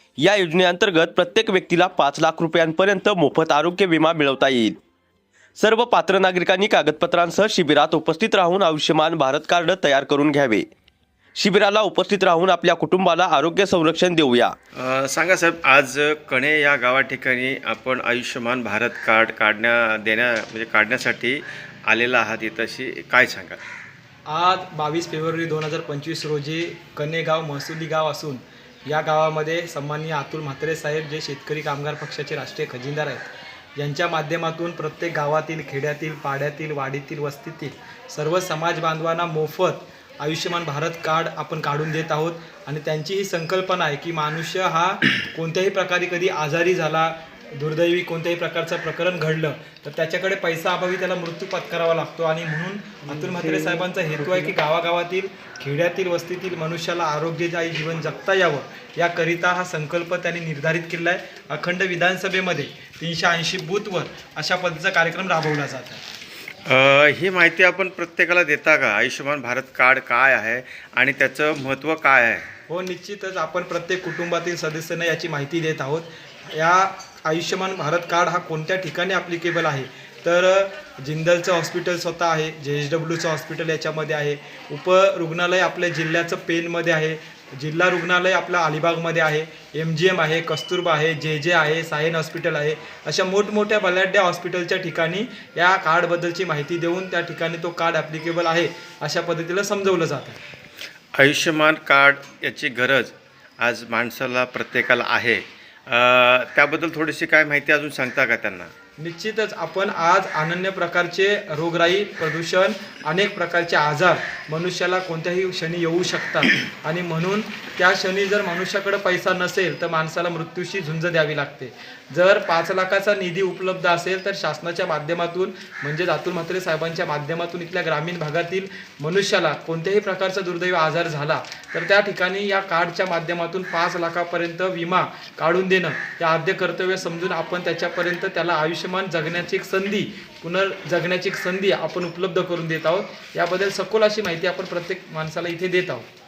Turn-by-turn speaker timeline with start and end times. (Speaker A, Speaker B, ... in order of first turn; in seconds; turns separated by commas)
Speaker A: 0.2-4.8, Speaker A: 5.6-10.6, Speaker A: 11.4-14.6, Speaker B: 14.8-23.6, Speaker C: 24.3-66.0, Speaker B: 66.7-72.5, Speaker C: 72.7-100.4, Speaker B: 101.2-108.7, Speaker C: 109.0-146.1